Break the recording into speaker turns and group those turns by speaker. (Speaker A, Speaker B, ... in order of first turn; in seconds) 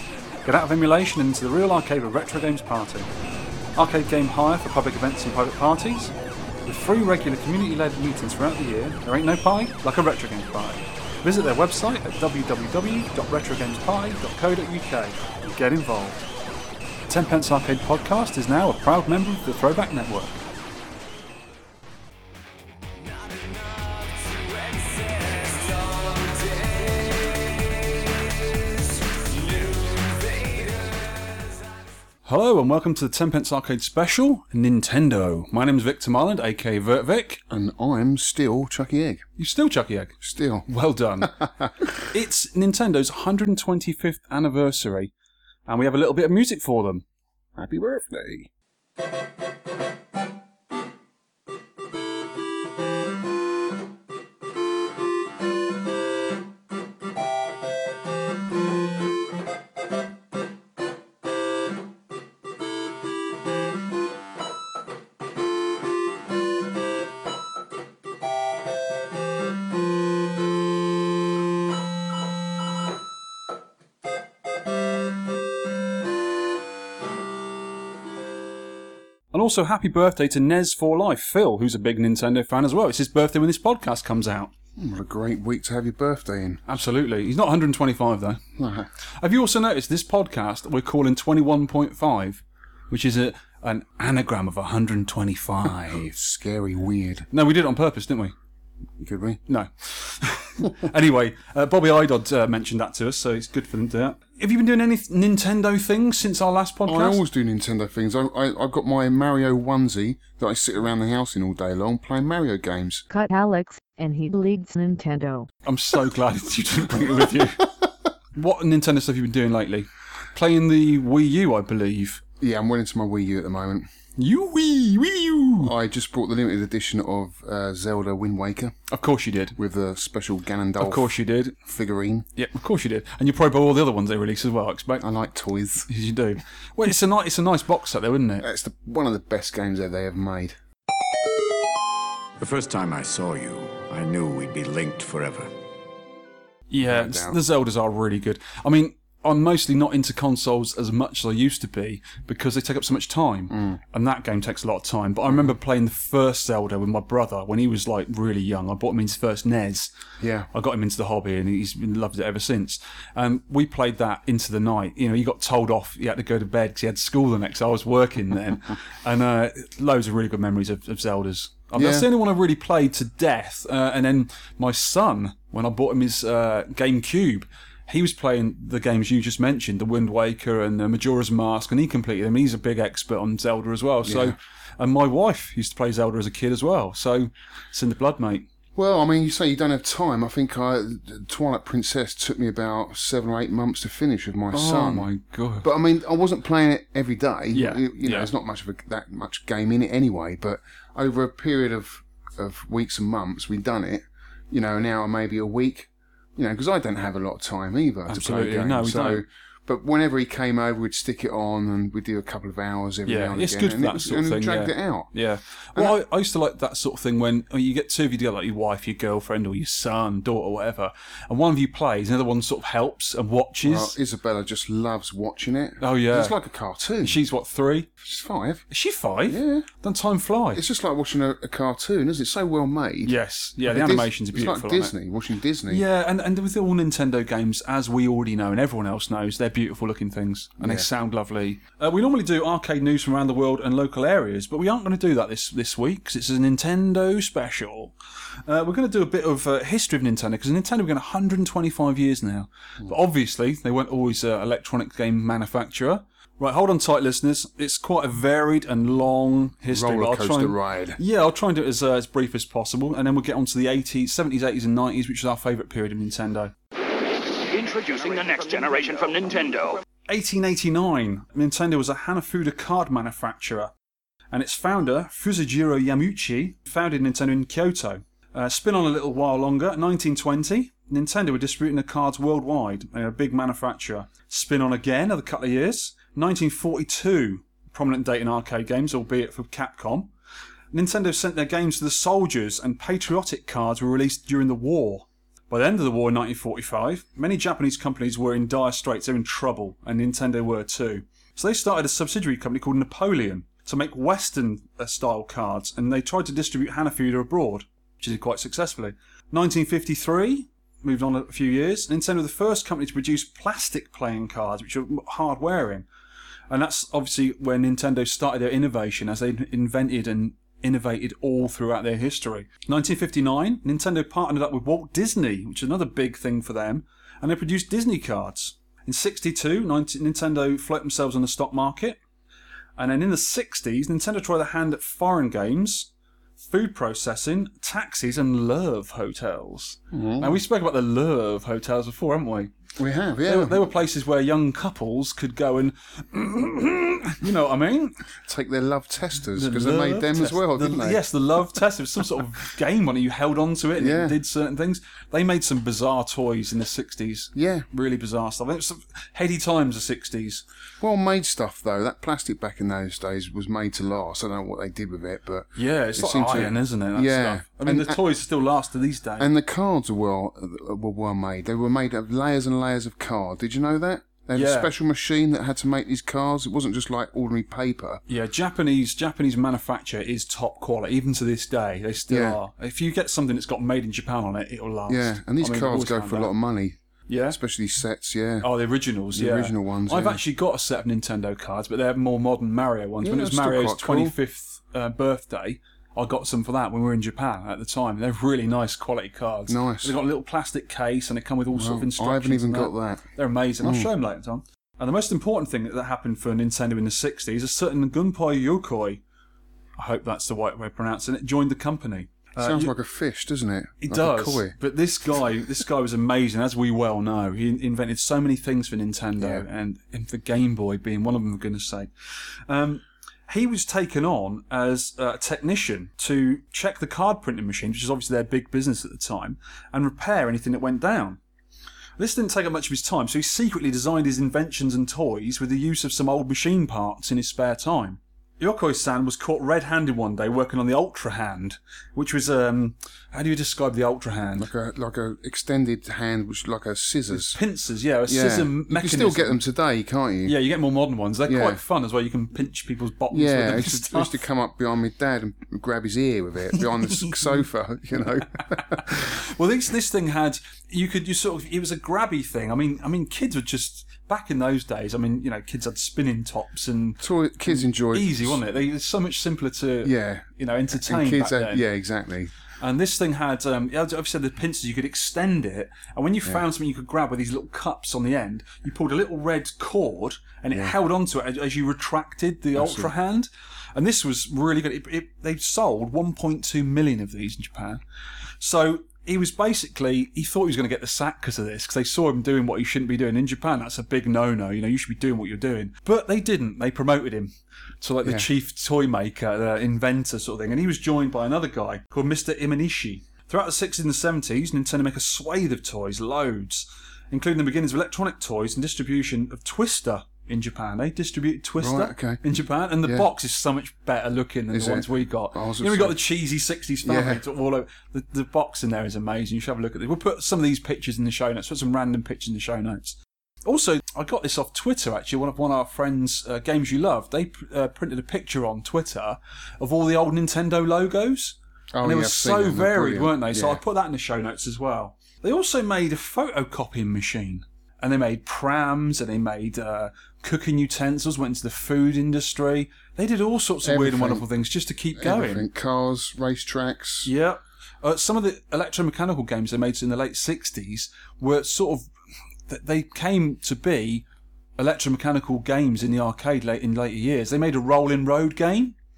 Speaker A: 0.4-3.1, 3.8-6.1, 6.7-16.2, 17.1-20.4, 32.2-37.4, 39.4-40.1, 40.7-41.4, 42.1-45.1, 45.7-47.0, 79.3-84.5, 86.7-88.4, 89.2-96.1, 97.3-98.3, 99.5-107.2, 115.7-117.7, 118.3-122.2, 124.2-125.7, 128.9-129.6, 130.8-131.6, 132.3-135.1, 135.9-138.4, 146.7-159.9, 160.5-188.5, 194.5-195.7, 197.5-198.3, 208.1-209.2, 213.1-223.9, 225.8-226.3, 227.0-227.9, 228.7-230.6, 233.1-234.9, 235.7-247.9, 248.4-266.5, 270.1-273.7, 274.3-290.1, 290.7-315.9, 316.5-332.0, 332.8-342.5, 343.2-348.0, 349.4-360.4, 365.6-369.3, 374.3-374.7, 378.1-386.3, 387.1-387.4, 388.4-409.0, 409.8-412.7, 413.8-431.2, 432.0-444.5, 447.1-449.4, 450.2-454.2, 456.6-457.2, 458.4-471.6, 472.6-487.8, 488.4-545.4, 547.0-551.9, 552.5-554.0, 554.6-558.8
Speaker B: 23.0-31.8, 267.6-269.8
Speaker C: 37.5-39.2, 40.2-40.7, 41.2-41.9, 47.5-48.5, 84.8-86.6, 88.6-88.9, 95.9-97.3, 99.0-99.4, 106.8-113.0, 117.1-117.4, 122.4-123.9, 125.6-128.8, 129.6-131.1, 131.7-132.3, 135.0-135.9, 138.4-140.6, 146.8-147.4, 153.5-153.8, 160.2-160.5, 171.8-172.1, 184.0-184.3, 188.7-195.1, 195.6-215.1, 223.6-227.2, 228.0-228.6, 229.3-229.7, 230.5-235.8, 240.6-240.9, 259.7-261.0, 339.9-340.4, 342.8-343.7, 348.2-351.0, 353.8-354.2, 357.3-357.6, 360.8-368.0, 369.2-378.0, 382.1-382.4, 384.9-386.8, 387.3-388.5, 389.1-390.2, 393.0-394.1, 399.5-399.9, 401.5-403.9, 412.4-414.5, 419.2-419.4, 444.4-447.4, 448.1-450.4, 451.2-451.6, 453.1-459.0, 467.0-468.4, 469.8-472.3, 482.6-482.9, 511.6-512.2, 514.5-516.0, 516.8-517.2, 531.7-533.6, 543.6-544.2, 545.0-547.1
Speaker D: 113.1-115.5
Speaker E: 142.4-145.5